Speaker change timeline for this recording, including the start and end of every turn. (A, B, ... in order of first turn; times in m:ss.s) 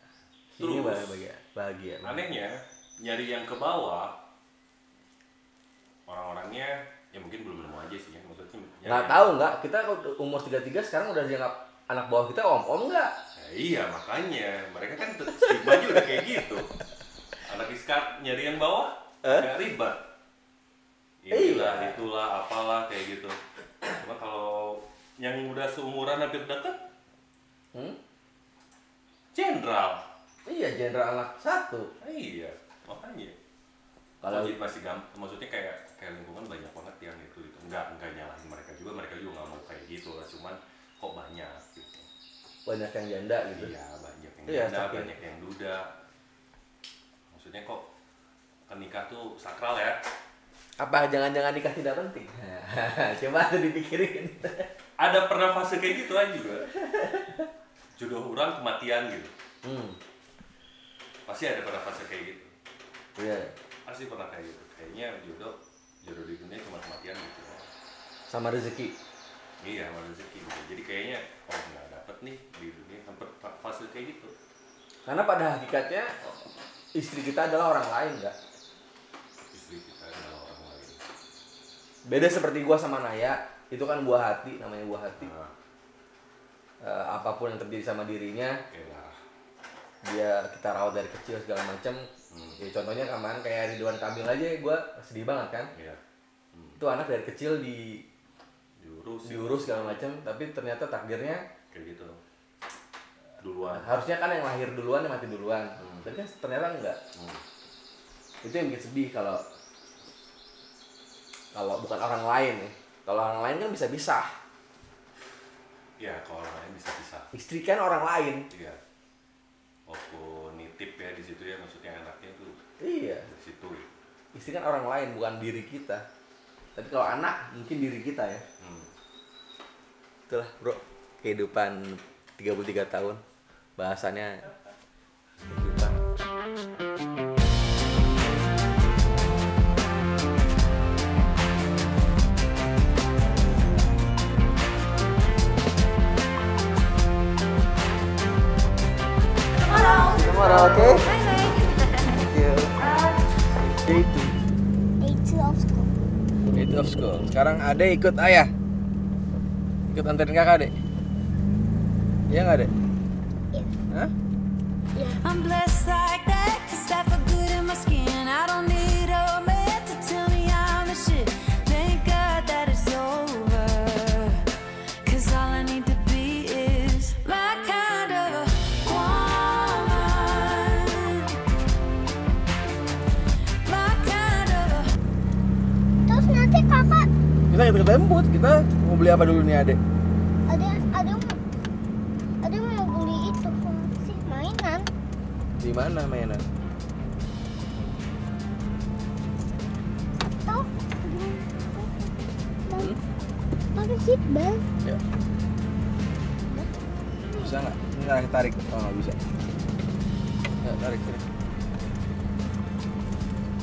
0:00.5-0:02.2 A
0:00.6-0:01.2 B
0:02.0-0:04.2 B
0:06.1-0:09.5 B
0:08.8-0:13.1 A
0:13.4-0:16.7 B
0:17.5-0:20.0 B
0:21.2-0:26.8 B
0:21.3-0:22.0 A
0:29.3-0:30.0 B
0:30.5-0:31.9 A
0:32.0-0:33.4 B
0:34.2-0:34.6 A
0:34.2-0:42.1 B
0:42.7-0:43.7 A
0:43.6-0:45.8 B
0:44.5-0:45.1 A
0:47.3-0:47.8 B
0:48.7-0:50.0 B
0:50.8-0:54.7 A
0:55.0-0:56.7 B
0:56.7-0:57.5 A
0:58.0-0:59.3 B
0:59.6-1:00.0 A
1:01.3-1:02.5 B
1:03.2-1:03.5 A
1:03.9-1:07.7 B
1:08.3-1:09.0 A
1:09.6-1:14.3 B
1:15.1-1:16.4 A
1:17.0-1:18.4 A
1:19.5-1:21.0 B
1:22.0-1:25.3 A
1:25.2-1:25.5 B
1:26.8-1:28.6 A
1:28.7-1:29.2 B
1:30.0-1:32.1 A
1:32.3-1:32.6 B
1:32.6-1:35.7 A
1:35.8-1:36.0 B
1:36.5-1:36.8 B
1:36.8-1:38.0 A
1:38.8-1:40.0 B
1:39.2-1:41.4 A
1:41.7-1:42.2 B
1:43.4-1:43.9 B
1:43.7-1:47.0 A
1:45.8-1:46.1 B
1:47.2-1:47.4 B
1:48.4-1:49.4 A
1:51.5-1:54.3 A
1:56.0-1:57.3 B
1:57.3-1:58.5 A
1:58.5-1:58.8 B
1:59.9-2:02.6 B
2:02.8-2:03.3 A
2:03.3-2:03.9 B
2:04.3-2:06.0 A
2:06.8-2:08.4 A
2:08.6-2:08.9 B
2:10.3-2:13.2 A
2:13.8-2:14.4 A
2:15.5-2:16.0 A
2:30.0-2:31.2 A
2:31.3-2:32.0 C
2:32.1-2:32.8 A
2:33.4-2:34.5 A
2:35.0-2:35.9 D
2:36.5-2:38.5 A
2:39.9-2:40.8 A
2:42.3-2:42.7 A
2:45.0-2:45.3 D
2:45.3-2:51.3 C
2:52.0-2:54.4 C
2:55.1-2:57.1 C
2:57.6-3:01.3 C
3:03.7-3:04.9 C
3:06.1-3:07.1 D
3:07.5-3:09.8 A
3:10.5-3:11.4 D
3:12.4-3:14.9 D
3:15.6-3:16.4 A
3:20.4-3:22.1 D
3:22.7-3:23.0 D
3:23.7-3:24.7 D
3:27.3-3:27.6 D
3:27.4-3:29.2 A
3:30.6-3:31.3 A